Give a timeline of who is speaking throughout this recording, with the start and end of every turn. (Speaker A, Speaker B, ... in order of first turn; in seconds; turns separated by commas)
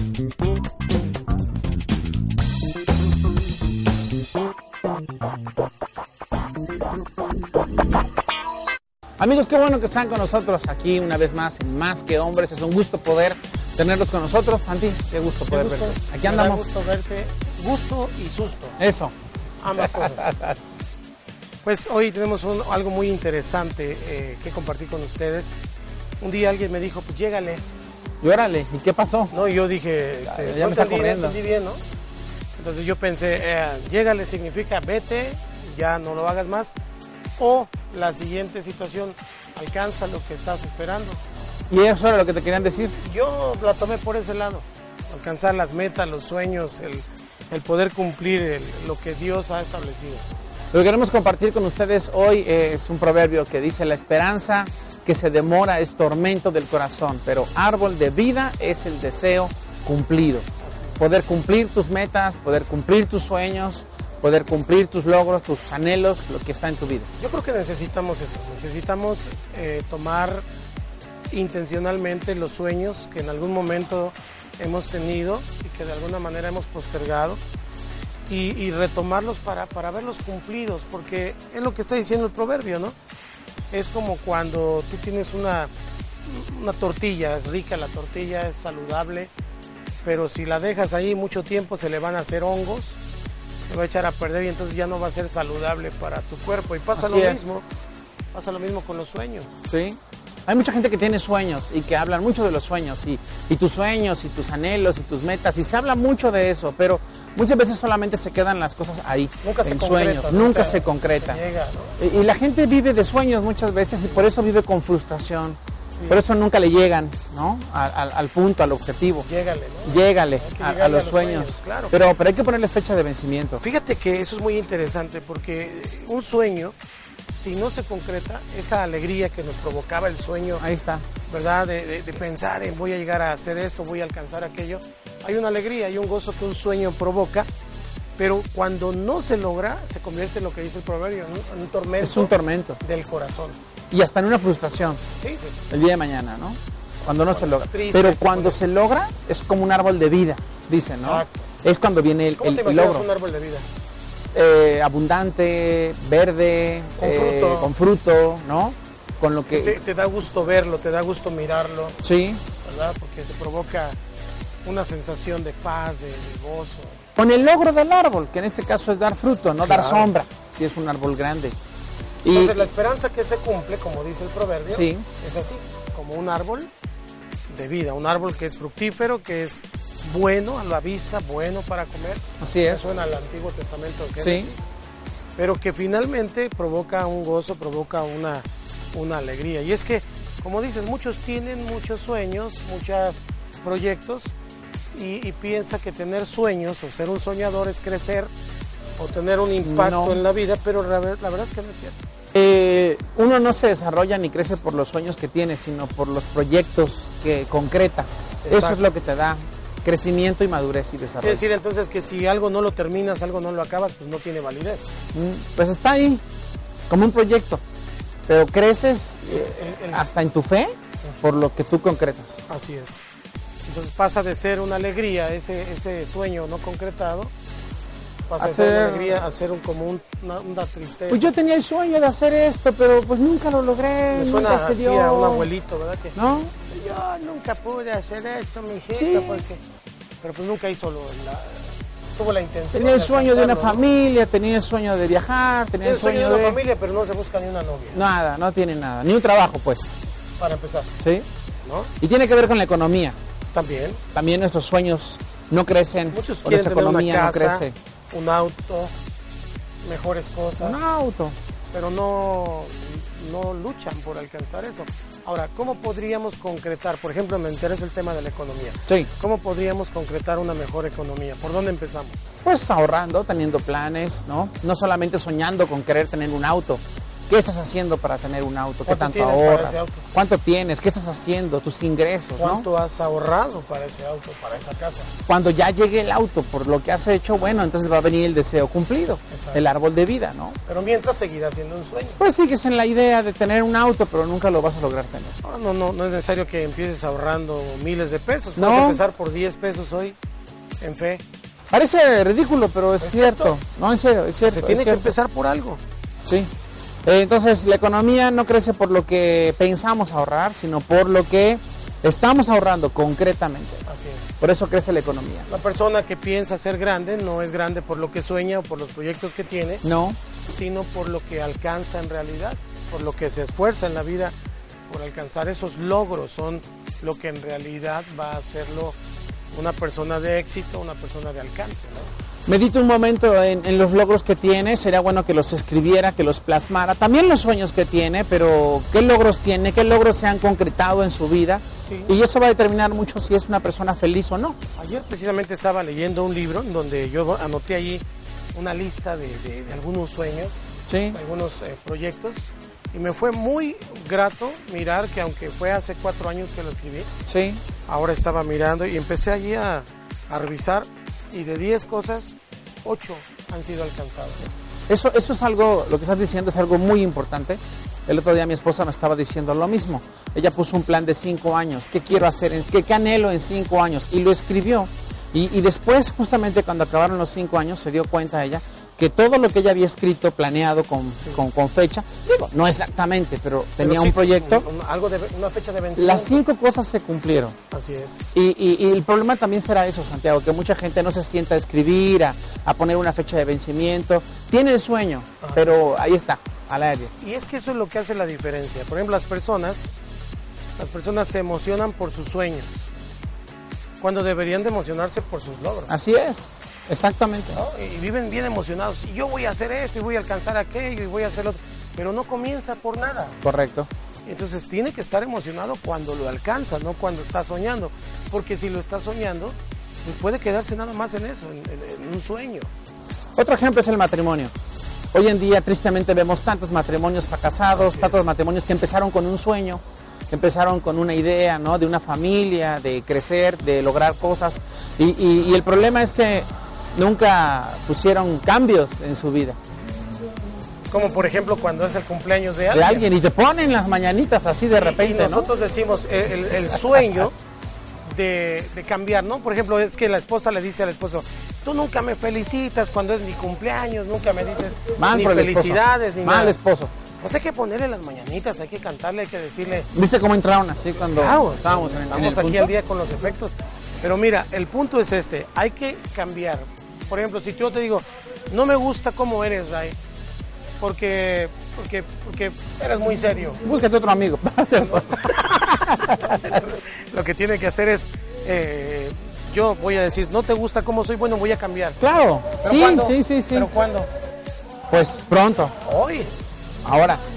Speaker A: 9.2-16.6, Speaker B: 15.5-18.8, Speaker A: 18.8-19.1, Speaker B: 19.6-20.4, Speaker A: 19.8-20.6, Speaker B: 21.6-25.6, Speaker B: 26.2-27.6, Speaker A: 28.2-29.3, Speaker B: 29.3-31.8, Speaker A: 30.3-31.4, Speaker B: 32.6-36.7, Speaker B: 37.4-41.2, Speaker A: 41.7-43.0, Speaker B: 43.0-50.2, Speaker A: 50.7-60.5, Speaker B: 60.7-61.0, Speaker A: 61.0-67.1, Speaker B: 67.2-70.4, Speaker B: 71.3-77.4, Speaker B: 78.3-82.9, Speaker B: 83.7-85.7, Speaker B: 86.2-89.3, Speaker B: 90.0-93.0, Speaker B: 93.7-97.6, Speaker A: 97.0-97.4, Speaker B: 98.3-99.5, Speaker A: 99.7-111.4, Speaker B: 109.4-112.0, Speaker A: 112.0-115.6, Speaker B: 116.0-116.2, Speaker A: 116.1-119.3, Speaker B: 119.2-122.1, Speaker A: 119.8-123.6, Speaker B: 123.6-126.7, Speaker B: 127.3-130.6, Speaker A: 130.6-131.0, Speaker B: 131.3-137.5, Speaker B: 138.2-143.6, Speaker A: 142.0-142.8, Speaker A: 143.9-145.0, Speaker B: 145.2-145.6, Speaker A: 145.7-153.1, Speaker B: 147.1-148.6, Speaker B: 151.0-151.3, Speaker B: 152.4-153.6, Speaker A: 154.3-159.8, Speaker B: 157.0-157.7, Speaker B: 159.5-161.9, Speaker A: 162.0-162.4, Speaker B: 162.6-164.0, Speaker B: 164.6-167.0, Speaker A: 167.2-171.6, Speaker B: 169.6-170.1, Speaker A: 172.2-172.7, Speaker B: 172.3-176.7, Speaker A: 174.7-175.1, Speaker B: 177.5-184.7, Speaker A: 182.4-182.9, Speaker A: 184.2-184.5, Speaker B: 185.4-194.3, Speaker B: 194.9-198.3, Speaker B: 199.0-202.0, Speaker A: 199.6-200.2, Speaker A: 202.3-211.4, Speaker B: 208.4-208.8, Speaker B: 211.2-214.9, Speaker A: 215.1-216.2, Speaker A: 216.9-217.6, Speaker A: 218.3-222.5, Speaker B: 219.6-220.1, Speaker B: 222.5-223.0, Speaker B: 223.7-227.3, Speaker B: 228.3-231.3, Speaker A: 228.4-229.2, Speaker A: 231.1-235.5, Speaker B: 234.1-239.6, Speaker A: 236.1-236.5, Speaker A: 238.9-239.4, Speaker B: 240.2-243.8, Speaker A: 242.7-246.6, Speaker B: 245.8-248.0, Speaker A: 247.9-249.9, Speaker B: 250.4-250.9, Speaker A: 251.0-251.3, Speaker B: 251.6-251.9, Speaker A: 252.0-253.2, Speaker B: 253.5-254.0, Speaker A: 254.1-257.7, Speaker B: 256.1-258.9, Speaker B: 259.8-260.8, Speaker A: 260.6-261.4, Speaker B: 261.7-272.2, Speaker A: 272.4-282.7, Speaker B: 278.9-280.0, Speaker B: 282.4-285.1, Speaker A: 285.3-290.6, Speaker B: 289.3-289.6, Speaker B: 290.6-292.2, Speaker A: 292.2-295.4, Speaker B: 295.4-300.1, Speaker A: 298.6-299.0, Speaker B: 300.8-301.2, Speaker A: 301.7-305.1, Speaker B: 303.0-303.6, Speaker B: 304.4-305.8, Speaker A: 307.0-313.8, Speaker B: 313.9-314.3, Speaker A: 314.4-315.5, Speaker B: 315.5-319.8, Speaker A: 319.8-320.2, Speaker B: 320.4-324.3, Speaker B: 324.9-328.9, Speaker B: 329.5-332.1, Speaker A: 332.4-344.6, Speaker B: 341.9-342.1, Speaker B: 344.8-348.0, Speaker B: 348.5-350.6, Speaker A: 350.9-351.2, Speaker B: 351.1-357.1, Speaker A: 357.3-357.6, Speaker B: 357.9-364.5, Speaker A: 364.9-384.6, Speaker B: 383.8-386.4, Speaker A: 386.0-387.6, Speaker B: 387.7-388.2, Speaker A: 388.3-397.1, Speaker B: 395.4-395.8, Speaker B: 397.2-399.9, Speaker B: 400.8-402.9, Speaker B: 404.0-405.9, Speaker A: 405.9-407.6, Speaker B: 407.5-413.4, Speaker A: 413.4-413.9, Speaker B: 414.2-422.7, Speaker A: 423.4-424.5, Speaker A: 425.1-439.6, Speaker B: 427.7-428.3, Speaker B: 440.9-443.1, Speaker A: 442.7-445.5, Speaker B: 444.7-447.3, Speaker B: 448.1-456.6, Speaker A: 454.9-456.9, Speaker B: 457.2-459.9, Speaker A: 459.9-462.7, Speaker B: 461.1-469.9, Speaker B: 470.8-473.6, Speaker A: 473.6-476.6, Speaker B: 474.8-475.3, Speaker B: 476.2-482.0, Speaker A: 482.0-483.7, Speaker B: 482.6-484.1, Speaker A: 484.9-485.7, Speaker B: 485.8-486.3, Speaker A: 486.8-487.2